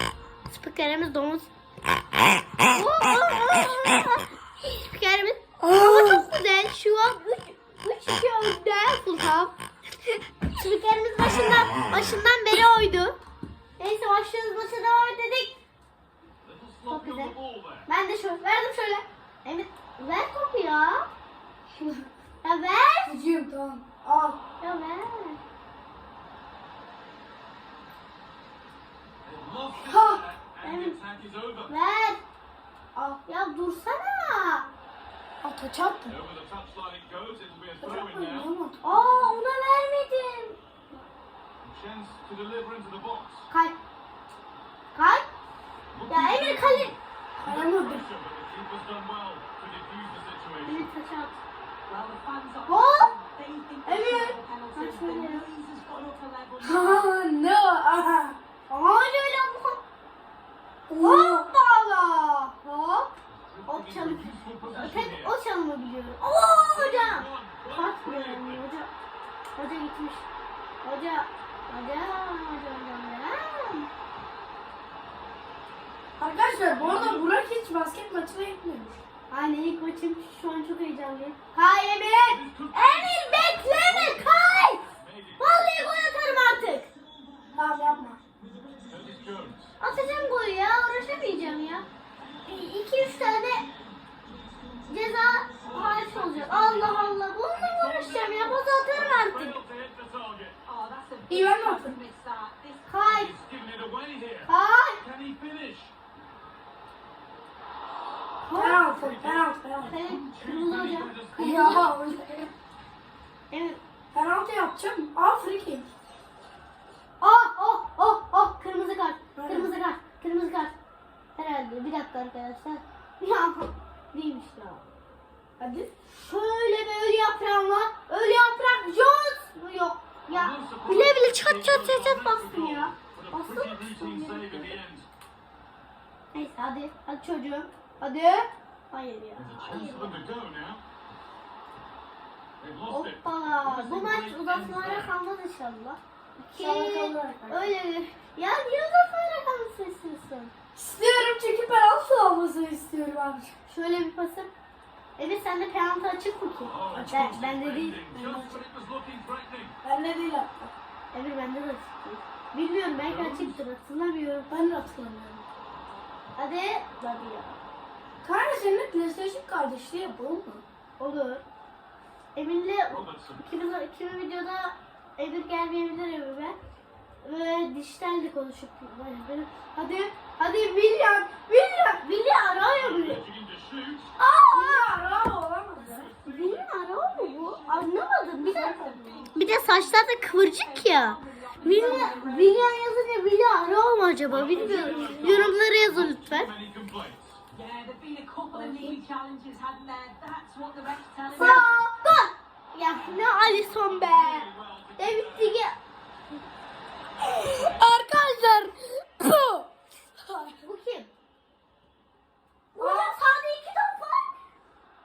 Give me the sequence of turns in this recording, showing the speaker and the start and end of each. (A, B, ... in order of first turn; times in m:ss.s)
0:00.5-0:01.5 A
0:02.6-0:09.5 A
0:05.6-0:06.3 B
0:10.5-0:13.2 A
0:13.8-0:15.6 A
0:16.4-0:17.9 C
0:16.9-0:17.3 A
0:17.9-0:21.1 A
0:21.8-0:22.0 B
0:22.4-0:23.1 A
0:23.0-0:24.4 B
0:24.6-0:25.4 A
0:29.2-0:31.7 C
0:29.8-0:30.2 B
0:30.6-0:31.0 A
0:31.7-0:32.2 A
0:32.9-0:33.2 B
0:33.2-0:34.7 A
0:35.4-0:36.2 B
0:36.1-0:38.5 C
0:37.8-0:39.3 B
0:38.8-0:40.6 A
0:41.6-0:43.5 C
0:43.5-0:43.7 A
0:44.9-0:45.2 A
0:45.9-0:50.9 C
0:46.1-0:47.0 A
0:47.4-0:48.1 B
0:50.6-0:51.4 A
0:51.9-0:57.1 D
0:52.7-0:53.1 A
0:53.8-0:55.5 A
0:56.6-0:58.4 B
0:58.7-0:59.8 A
1:00.9-1:01.5 B
1:01.0-1:03.1 A
1:03.5-1:05.3 C
1:03.6-1:08.9 A
1:06.4-1:08.7 C
1:09.6-1:10.3 A
1:10.8-1:13.9 A
1:16.2-1:19.0 B
1:16.5-1:17.3 C
1:19.3-1:26.9 A
1:22.2-1:26.5 C
1:26.9-1:27.6 D
1:27.5-1:28.2 B
1:28.4-1:29.5 D
1:28.9-1:29.8 C
1:29.8-1:31.9 A
1:32.4-1:33.7 A
1:33.0-1:33.6 C
1:33.5-1:33.8 D
1:34.8-1:39.6 A
1:35.0-1:40.6 C
1:40.6-1:43.0 D
1:41.3-1:42.0 B
1:42.9-1:43.3 A
1:43.0-1:45.9 C
1:44.4-1:45.0 A
1:48.4-1:48.8 A
1:48.5-1:50.0 B
1:48.7-1:51.9 C
1:49.8-1:51.9 A
1:51.4-1:52.5 B
1:53.5-1:53.8 A
1:54.1-1:55.9 B
1:57.2-2:00.7 A
1:59.3-1:59.7 B
2:01.4-2:04.8 A
2:05.6-2:05.9 B
2:06.1-2:14.8 A
2:10.3-2:15.1 C
2:16.3-2:20.3 A
2:19.4-2:20.8 C
2:22.6-2:25.1 C
2:22.9-2:30.5 A
2:26.5-2:27.7 B
2:30.8-2:33.5 B
2:33.7-2:34.5 A
2:35.2-2:38.0 A
2:36.7-2:39.7 C
2:36.9-2:37.4 B
2:38.1-2:38.6 B
2:39.8-2:40.7 B
2:41.1-2:44.5 A
2:43.0-2:43.6 C
2:44.5-2:45.4 B
2:46.4-2:47.6 A
2:48.2-2:50.6 B
2:51.0-2:51.4 A
2:52.3-2:56.6 A
2:52.9-2:53.4 C
2:57.2-3:03.2 A
3:02.6-3:04.1 C
3:04.2-3:05.0 A
3:04.5-3:06.1 B
3:05.8-3:07.2 C
3:06.2-3:16.5 A
3:07.2-3:12.7 D
3:08.4-3:09.3 B
3:11.6-3:12.2 B
3:14.3-3:17.4 C
3:14.4-3:15.4 B
3:17.5-3:21.6 D
3:18.5-3:19.0 B
3:21.3-3:21.7 B
3:21.4-3:25.8 A
3:22.9-3:25.6 C
3:27.2-3:29.7 B
3:30.2-3:30.5 B
3:30.6-3:31.1 A
3:32.7-3:34.3 A
3:32.8-3:33.4 B